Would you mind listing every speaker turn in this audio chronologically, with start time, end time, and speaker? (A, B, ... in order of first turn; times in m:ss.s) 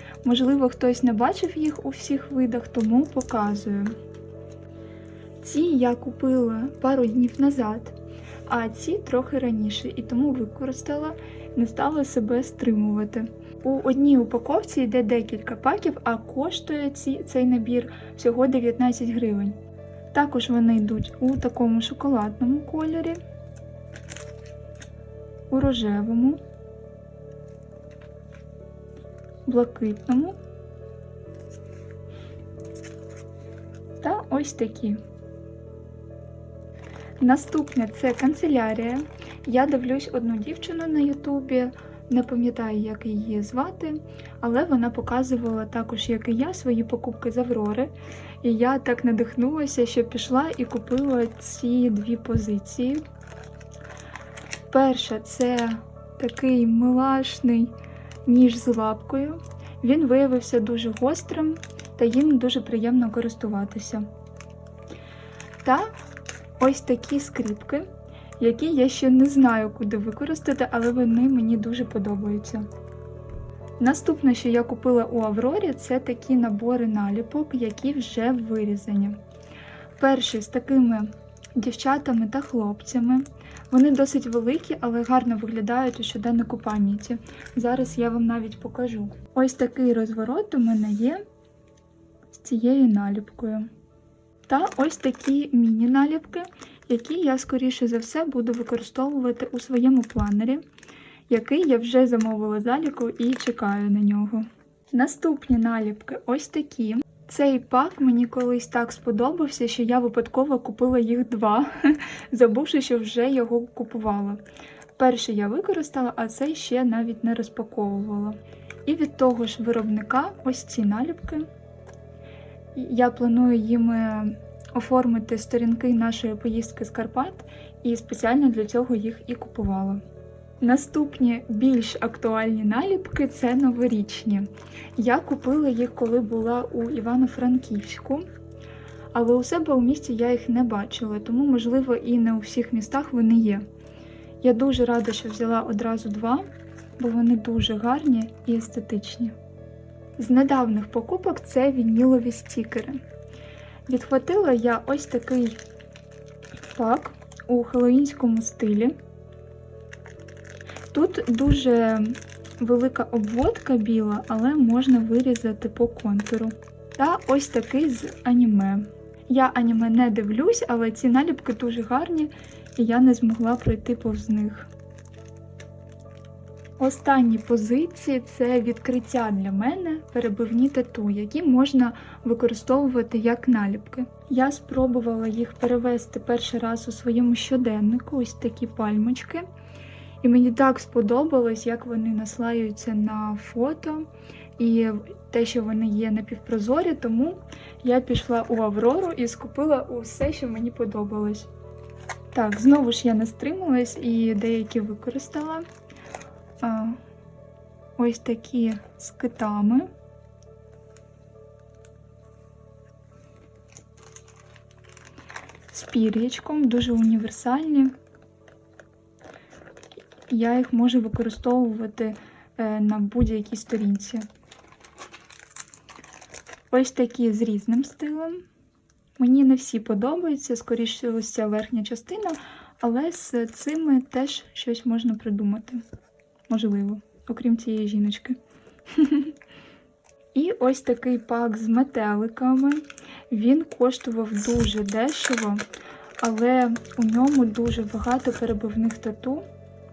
0:00.2-0:03.9 A
0:05.4-0:07.9 A
0:08.5-0:19.6 A
0:20.1-0:23.2 A
0:25.5-0:26.4 A
0:29.4-0:30.4 A
0:34.0-0:35.0 A
0:37.2-0:53.0 A
0:54.7-0:57.7 A
0:58.2-1:04.0 A
1:05.6-1:05.9 A
1:06.6-1:07.8 A
1:08.4-1:12.6 A
1:13.8-1:19.2 A
1:20.0-1:31.2 A
1:32.3-1:33.7 A
1:34.5-1:40.6 A
1:41.3-1:54.4 A
1:55.0-2:01.4 A
2:02.7-2:10.0 A
2:10.6-2:18.2 A
2:19.1-2:23.6 A
2:24.4-2:26.4 A
2:27.0-2:29.3 A
2:30.2-2:33.0 A
2:33.9-2:35.6 A
2:36.7-2:38.9 A
2:40.9-2:54.7 A
2:56.8-3:09.4 A
3:10.2-3:14.1 A
3:14.6-3:21.5 A
3:22.3-3:25.6 A
3:26.6-3:27.0 A
3:28.0-3:29.9 A
3:35.7-3:37.9 A
3:40.3-3:44.2 A
3:46.7-3:48.4 A
3:49.2-3:55.8 A
3:56.5-3:58.4 A
3:58.9-3:59.3 A
4:00.3-4:05.6 A
4:06.2-4:09.4 A